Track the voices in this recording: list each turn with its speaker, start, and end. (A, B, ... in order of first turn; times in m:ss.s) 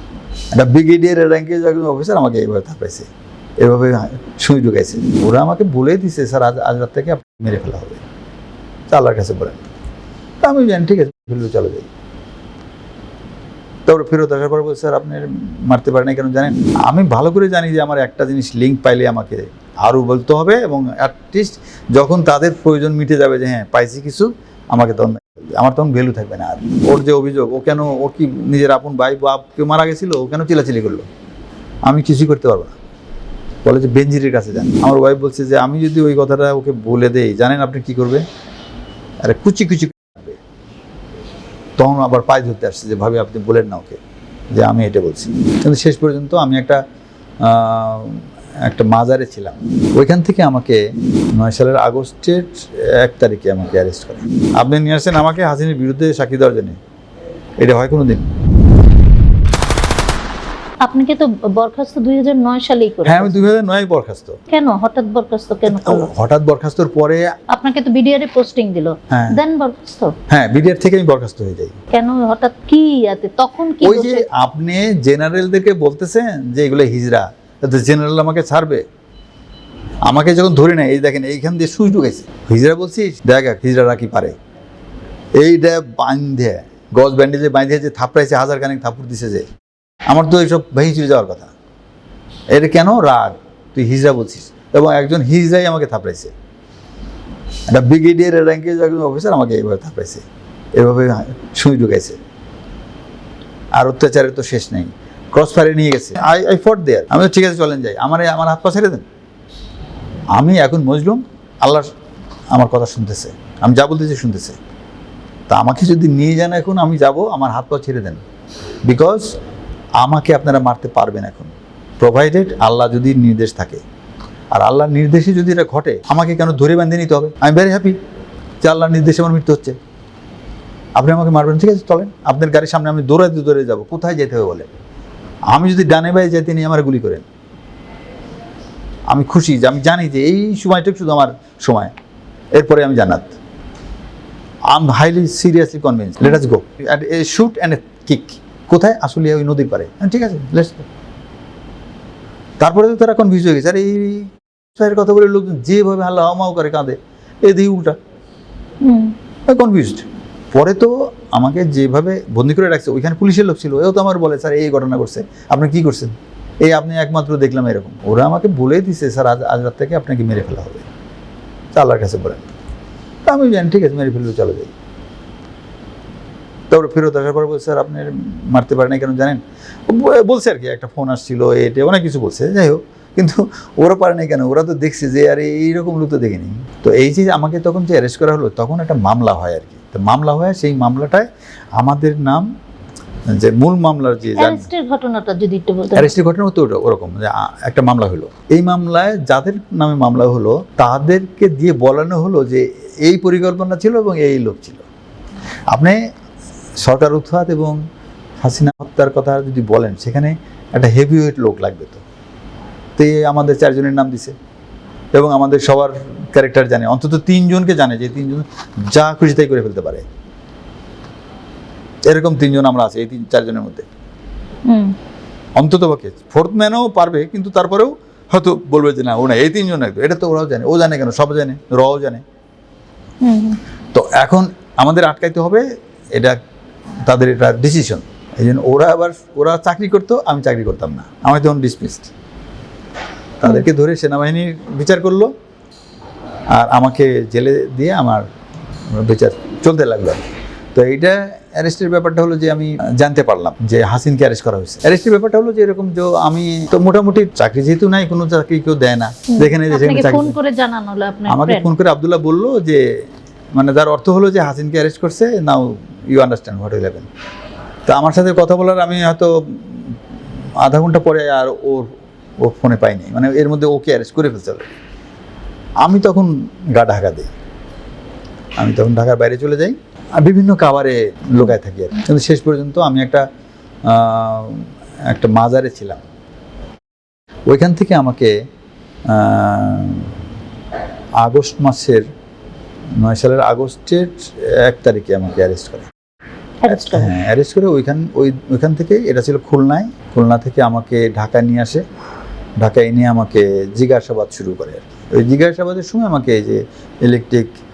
0:00.5-0:08.0 A
0:08.9-0:09.6 A
0:10.4-0:11.9 A
0:13.8-0:31.1 A
0:31.8-0:32.7 A
0:33.6-0:38.2 A
0:39.2-0:40.4 A
0:41.8-0:44.0 A
0:44.5-0:46.8 A
0:47.4-0:50.8 A
0:51.3-0:56.8 A
0:57.6-0:58.3 A
1:00.8-1:03.4 B
1:03.0-1:04.4 A
1:04.5-1:06.1 B
1:05.7-1:07.3 A
1:07.5-1:10.2 B
1:09.1-1:09.4 A
1:10.3-1:11.7 A
1:11.9-1:14.2 B
1:13.8-1:18.8 A
1:20.0-1:24.4 A
1:25.4-1:29.5 A
1:30.1-1:31.5 A
1:32.5-1:36.3 A
1:37.7-1:42.2 A
1:43.8-1:49.0 A
1:50.3-1:51.9 A
1:52.5-1:54.6 A
1:55.5-1:58.2 A
1:58.8-1:59.3 A
2:00.0-2:03.8 A
2:04.5-2:08.0 A
2:08.6-2:09.8 A
2:11.0-2:14.7 A
2:15.5-2:17.2 A
2:19.1-2:21.9 A
2:22.5-2:23.3 A
2:24.7-2:30.9 A
2:32.6-2:38.0 A
2:38.8-2:39.1 B
2:39.5-2:50.9 A
2:51.7-2:52.5 A
2:53.2-2:54.7 A
2:56.7-3:12.5 A
3:13.3-3:14.7 A
3:14.4-3:16.1 B
3:15.9-3:24.8 A
3:25.7-3:26.0 A
3:26.8-3:27.8 A
3:28.4-3:32.0 A
3:33.0-3:34.3 A
3:35.1-3:40.0 A
3:42.1-3:43.9 A
3:44.6-3:44.9 B
3:45.6-3:52.2 A
3:53.2-3:53.6 B
3:53.9-3:55.6 A
3:57.0-4:02.1 A
4:03.4-4:05.3 A
4:06.5-4:08.2 A
4:08.9-4:20.4 A
4:19.3-4:21.7 B
4:21.3-4:22.8 A
4:23.5-4:27.1 A
4:27.9-4:29.8 A
4:30.6-4:34.7 A
4:35.8-4:37.3 A
4:38.6-4:43.2 A
4:43.8-4:46.0 A
4:47.5-4:48.3 A
4:49.1-4:50.1 A
4:51.2-4:52.1 A
4:53.0-4:55.9 A
4:56.6-4:57.1 B
4:56.7-5:01.8 A
5:02.6-5:07.5 A